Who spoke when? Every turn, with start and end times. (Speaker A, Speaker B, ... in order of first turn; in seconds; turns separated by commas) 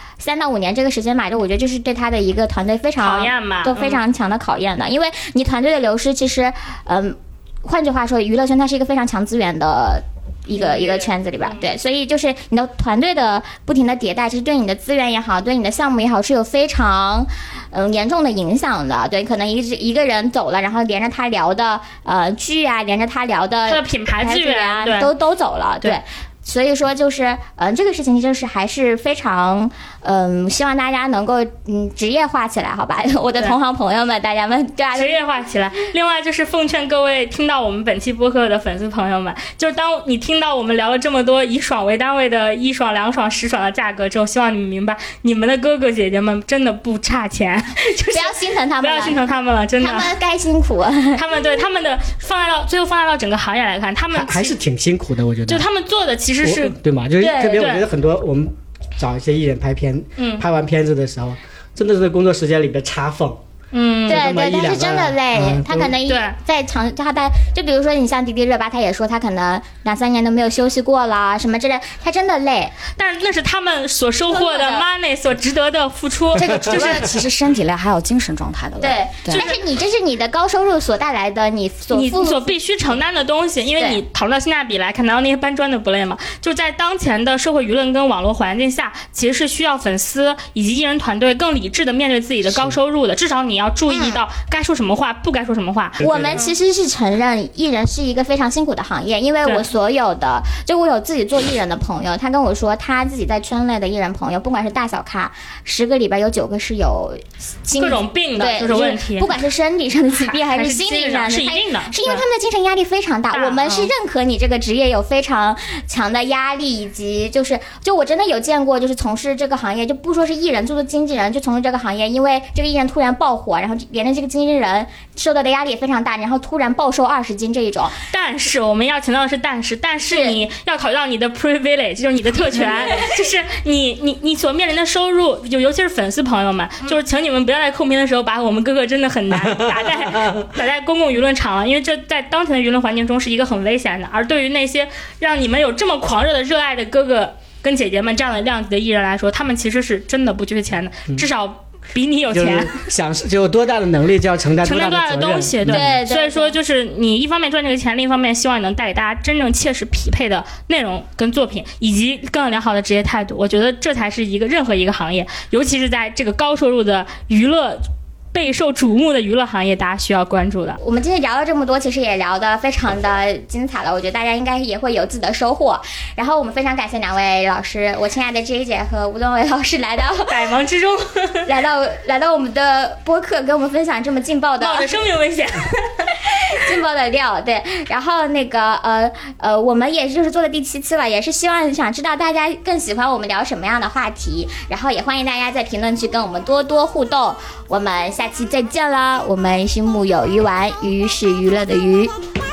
Speaker A: 0.2-35.2, Speaker B: 3.0-4.0, Speaker B: 10.6-11.7, Speaker B: 23.7-25.1, Speaker B: 35.0-50.1, Speaker A: 48.1-49.2, Speaker A: 49.8-51.2, Speaker B: 51.2-54.6, Speaker C: 54.1-55.7, Speaker B: 55.5-56.8, Speaker C: 56.4-63.4, Speaker A: 57.2-57.6, Speaker B: 57.5-57.9, Speaker B: 60.2-60.5, Speaker B: 63.7-64.2, Speaker C: 64.0-65.9, Speaker A: 64.1-72.7, Speaker B: 66.0-66.4, Speaker B: 73.0-77.2, Speaker A: 74.3-74.8, Speaker D: 76.3-79.4, Speaker A: 78.8-82.6, Speaker B: 79.3-79.6, Speaker B: 81.9-96.5, Speaker C: 92.5-92.8, Speaker A: 93.9-94.2, Speaker C: 96.0-96.4, Speaker A: 96.0-128.0, Speaker B: 107.8-109.4, Speaker B: 110.3-112.2, Speaker B: 113.3-113.9, Speaker B: 128.1-152.8, Speaker A: 130.1-130.4, Speaker A: 132.6-133.2, Speaker C: 139.3-140.5, Speaker C: 152.3-155.9, Speaker B: 154.6-170.8, Speaker A: 155.7-156.6, Speaker A: 170.8-180.3, Speaker B: 180.3-181.5, Speaker A: 181.4-184.9, Speaker B: 184.6-186.2, Speaker A: 186.3-202.1